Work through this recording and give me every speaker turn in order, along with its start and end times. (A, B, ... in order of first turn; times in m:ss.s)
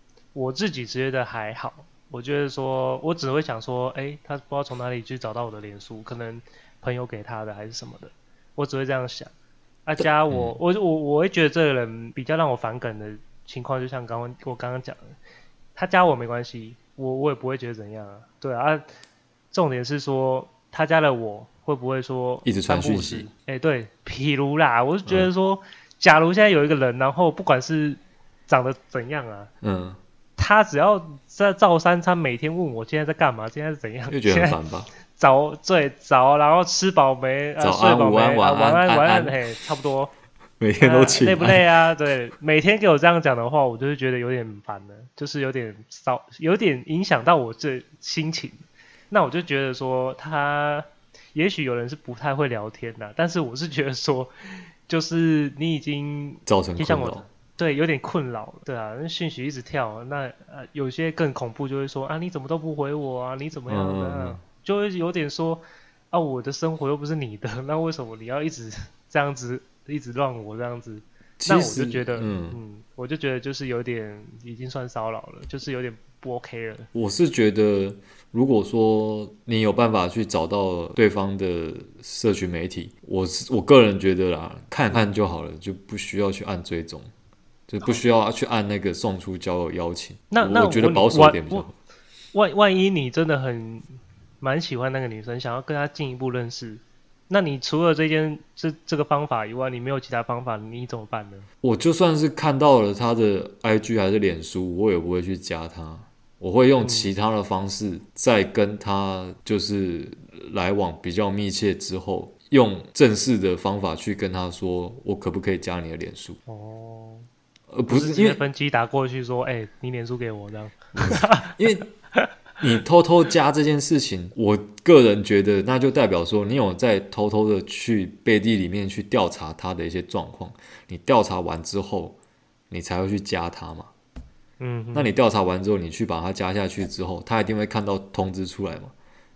0:00.3-0:09.3 A
0:09.9-0:15.1 A
0:10.0-0:10.6 B
0:15.8-0:18.8 A
0:19.5-0:29.5 A
0:22.4-0:23.3 B
0:29.6-0:30.0 B
0:30.4-0:34.6 A
0:34.1-0:34.9 B
0:35.1-0:40.1 A
0:37.6-0:39.4 B
0:40.6-0:41.6 B
0:40.8-1:16.9 A
0:56.5-0:57.3 B
1:03.7-1:04.4 B
1:11.4-1:12.6 B
1:16.9-1:27.1 B
1:27.7-1:31.8 B
1:30.3-1:31.7 A
1:32.3-1:41.5 A
1:41.6-1:56.4 B
1:46.8-1:47.1 A
1:56.5-1:57.3 A
1:57.7-1:58.4 B
1:57.9-2:01.6 A
2:01.0-2:01.9 B
2:02.6-2:12.2 B
2:12.7-2:13.9 B
2:14.6-2:15.1 A
2:14.9-2:18.9 B